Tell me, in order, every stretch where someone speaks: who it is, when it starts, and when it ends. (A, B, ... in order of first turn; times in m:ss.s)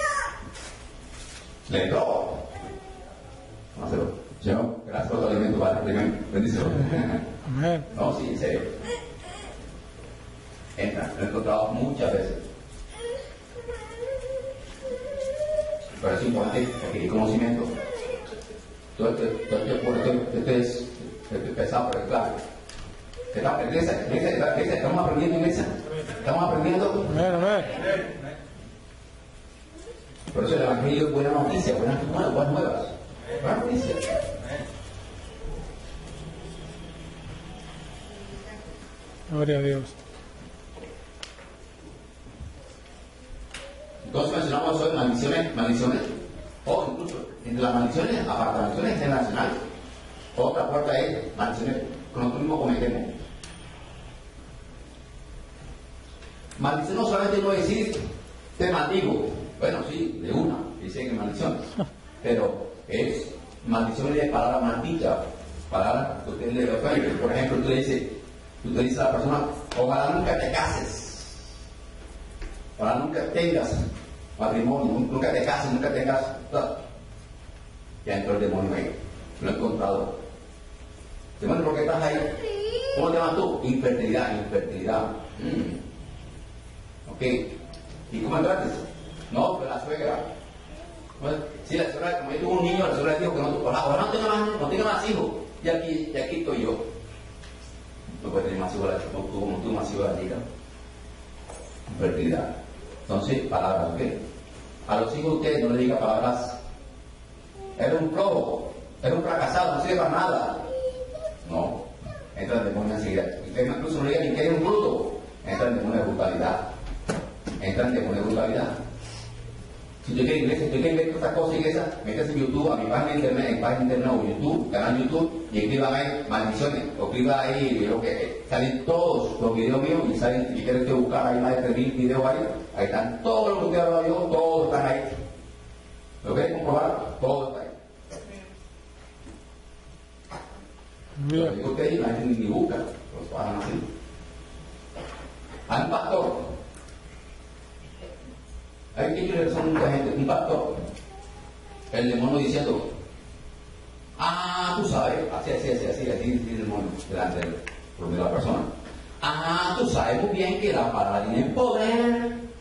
0:01.7-0:02.5 A
0:03.8-0:07.2 A
0:07.4-0:07.9 B
0:07.9-0:08.8 A
0:10.8-0:12.4 A
0:16.0-0:17.7 A
0:19.0-0:22.4 A
0:23.3-0:27.4 A
0:27.4-0:27.7 B
0:30.3-0:34.1 A
0:39.3-0:40.0 B
0:44.0-0:46.1 A
0:46.6-0:49.6 A
0:50.4-0:53.2 A
0:56.6-0:58.0 A
0:58.6-1:01.6 A
1:02.2-1:11.4 A
1:12.8-1:16.8 A
1:18.0-1:20.2 A
1:21.4-1:22.4 A
1:22.9-1:25.8 A
1:27.1-1:27.5 A
1:28.1-1:30.3 A
1:31.2-1:36.9 A
1:38.2-1:40.4 A
1:41.9-1:42.5 A
1:43.1-1:44.2 A
1:44.9-1:46.6 A
1:47.8-1:50.7 A
1:51.4-1:51.8 A
1:52.4-1:56.7 A
1:57.6-1:58.8 A
2:00.0-2:15.2 A
2:16.2-2:17.7 A
2:21.2-2:21.5 B
2:21.3-2:23.8 A
2:25.7-2:26.6 A
2:29.0-2:30.8 A
2:31.9-2:32.9 A
2:34.2-2:38.7 A
2:39.2-2:42.4 A